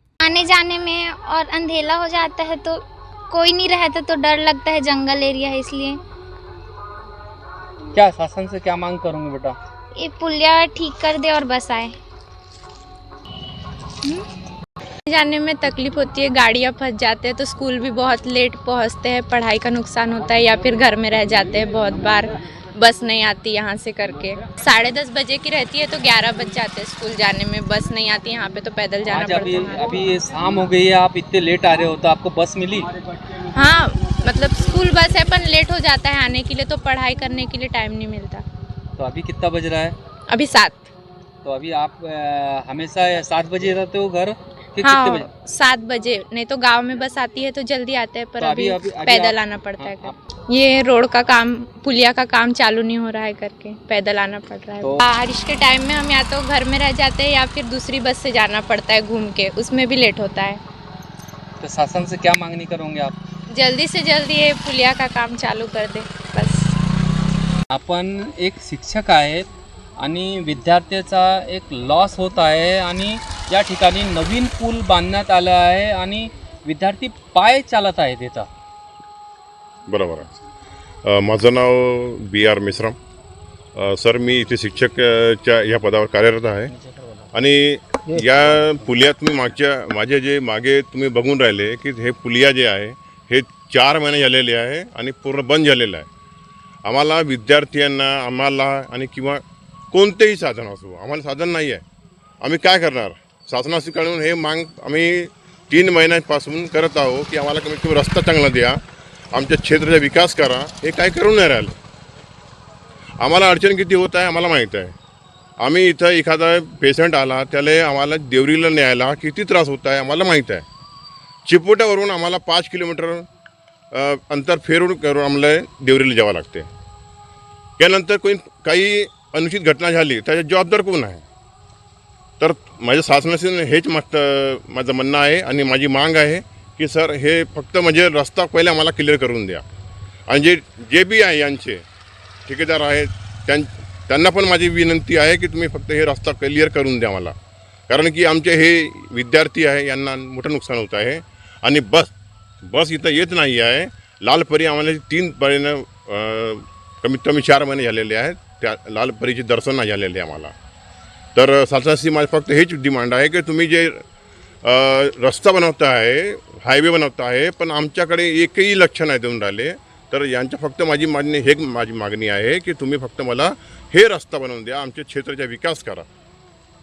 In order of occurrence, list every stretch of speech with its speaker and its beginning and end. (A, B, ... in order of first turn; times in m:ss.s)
0:00.2-0:06.0 A
0:07.9-0:09.6 B
0:10.0-0:11.9 A
0:15.1-0:30.0 C
0:29.1-0:32.9 B
0:33.5-0:38.4 C
0:39.0-0:40.0 B
0:40.3-0:40.9 C
0:41.4-0:45.3 B
0:44.8-1:00.6 C
0:48.4-0:50.2 B
1:01.6-1:03.2 B
1:03.5-1:06.7 C
1:07.7-1:18.5 B
1:19.9-1:20.3 D
1:21.0-1:23.0 D
1:23.8-1:26.7 D
1:27.3-1:36.1 D
1:36.8-1:41.8 D
1:42.4-1:48.8 D
1:49.3-1:51.8 D
1:53.2-1:55.0 D
1:55.6-2:00.6 D
2:01.5-2:03.3 D
2:03.9-2:06.7 D
2:07.8-2:11.2 D
2:12.4-2:19.6 D
2:20.3-2:21.8 D
2:22.5-2:27.4 D
2:27.9-2:40.5 D
2:41.4-2:44.0 D
2:44.6-2:56.1 D